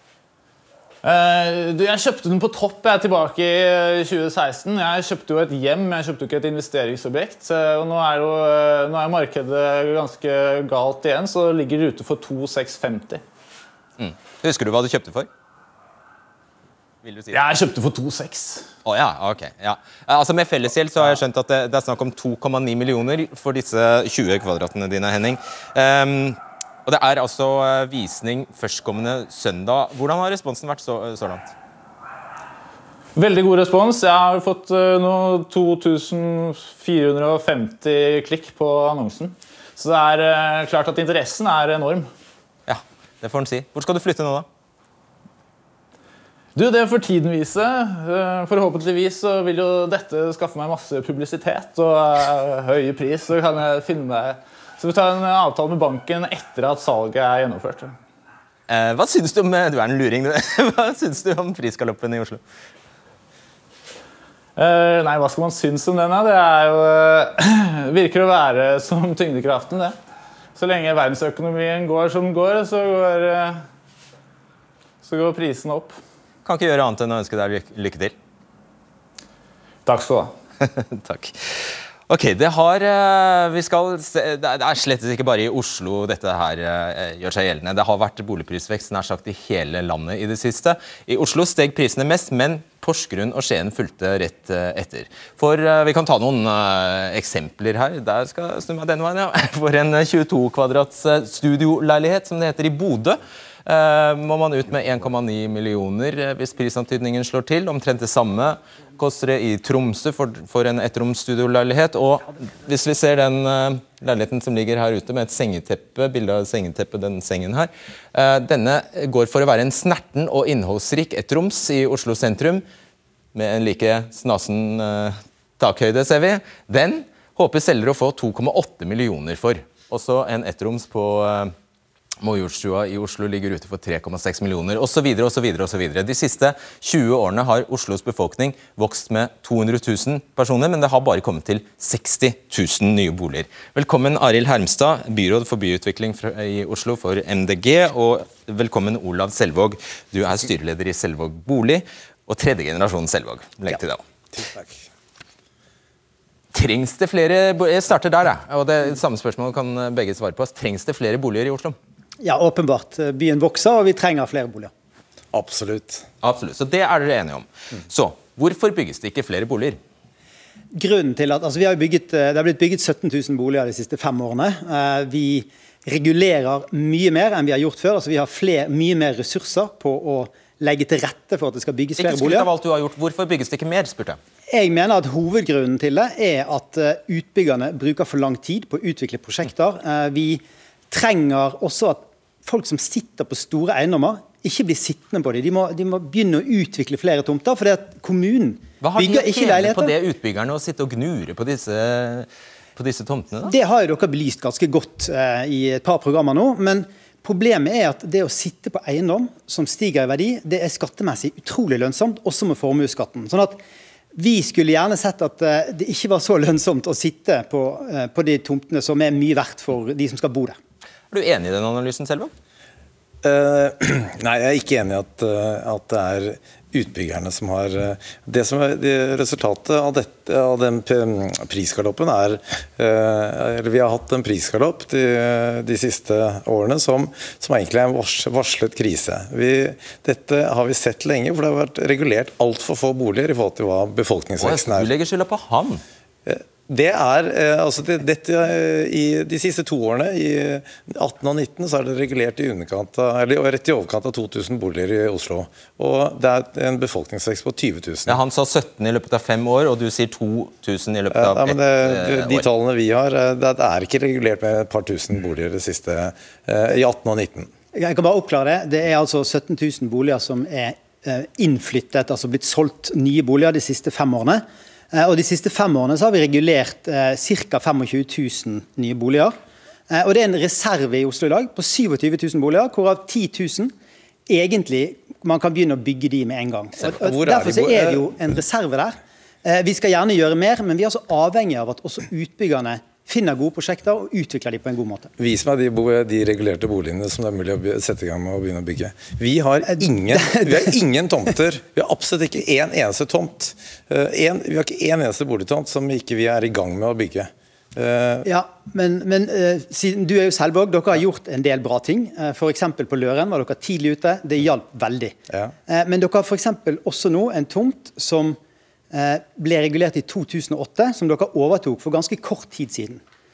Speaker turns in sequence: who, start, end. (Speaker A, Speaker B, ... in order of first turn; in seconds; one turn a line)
Speaker A: 1.0-13.2
Speaker B: 14.0-15.3
Speaker B: 17.0-17.4
Speaker A: 17.3-18.6
Speaker B: 18.9-31.5
Speaker A: 33.1-42.1
Speaker B: 42.7-44.5
Speaker A: 46.5-57.9
Speaker B: 58.7-62.4
Speaker A: 64.6-70.0
Speaker A: 70.6-73.6
Speaker A: 75.0-76.0
Speaker B: 76.4-78.1
Speaker A: 79.9-80.3
Speaker B: 80.6-122.6
Speaker B: 123.3-131.5
Speaker B: 132.2-154.0
Speaker C: 154.4-154.8
Speaker B: 156.5-161.8
Speaker D: 162.2-164.7
Speaker C: 165.3-166.1
Speaker B: 166.2-169.8
Speaker D: 170.7-182.5
Speaker B: 181.9-184.2
Speaker D: 184.5-199.9
Speaker B: 198.8-203.5
Speaker D: 203.4-213.6
Speaker D: 214.1-220.6
Speaker B: 221.1-222.3
Speaker C: 223.2-244.9
Speaker B: 244.4-245.8
Speaker C: 246.2-258.2
Speaker B: 258.1-262.5
Speaker C: 261.1-267.5
Speaker D: 267.7-279.4
Speaker D: 279.9-283.7
Speaker D: 284.3-295.1
Speaker C: 286.8-288.1
Speaker C: 295.2-308.2
Speaker D: 299.7-300.7
Speaker D: 308.2-315.2
Speaker D: 315.7-318.4
Speaker D: 318.9-323.0